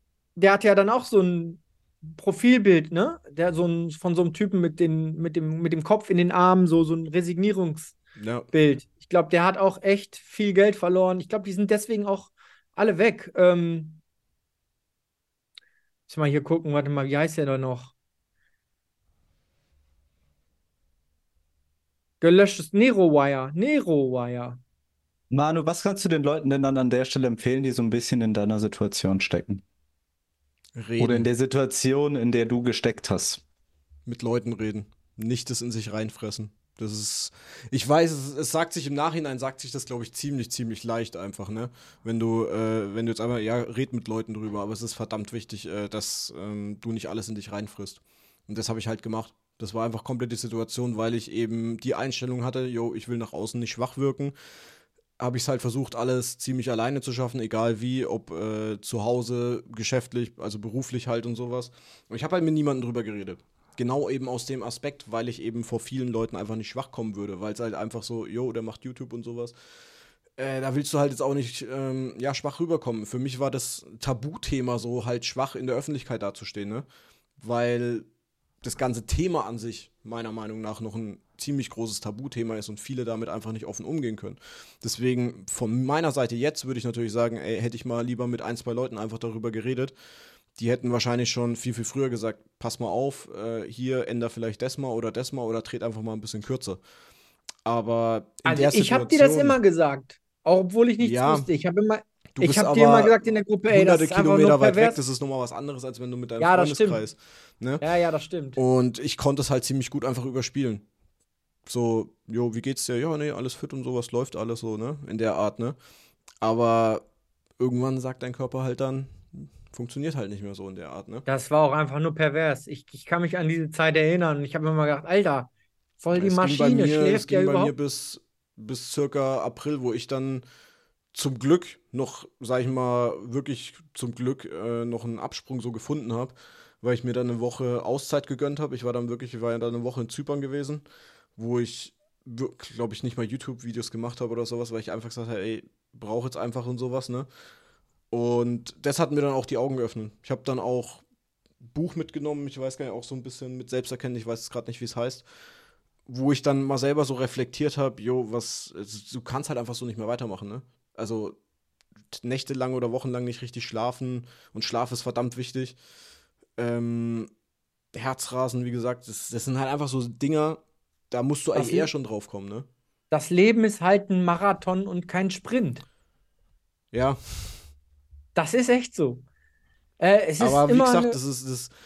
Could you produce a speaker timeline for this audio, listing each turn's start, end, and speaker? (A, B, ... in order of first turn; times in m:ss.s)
0:00.4-0:08.0 A
0:08.2-0:08.5 B
0:08.5-0:14.0 A
0:16.1-0:17.9 A
0:22.2-0:24.6 A
0:25.3-0:29.6 C
0:30.8-0:31.3 B
0:31.0-0:33.4 C
0:34.1-0:54.3 B
0:55.2-1:09.5 B
1:10.4-1:16.8 B
1:17.4-1:18.1 B
1:18.6-1:29.9 B
1:30.5-1:36.8 B
1:37.6-1:39.6 B
1:38.4-1:45.0 A
1:41.0-1:41.5 B
1:42.4-1:47.8 B
1:46.4-1:47.0 A
1:47.8-1:48.6 A
1:48.6-1:50.8 B
1:51.7-1:55.8 B
1:56.4-1:57.0 B
1:57.6-2:01.2 B
2:01.2-2:07.7 A
2:06.1-2:10.4 B
2:11.1-2:20.8 B
2:21.4-2:27.3 B
2:28.1-2:31.0 B
2:31.6-2:35.3 B
2:36.1-2:41.4 B
2:42.1-2:45.8 B
2:46.6-2:47.3 B
2:47.9-2:52.7 B
2:51.5-2:51.9 A
2:53.1-2:55.8 A
2:56.9-2:57.7 B
2:58.3-2:59.2 A
3:00.0-3:01.2 A
3:00.4-3:01.7 B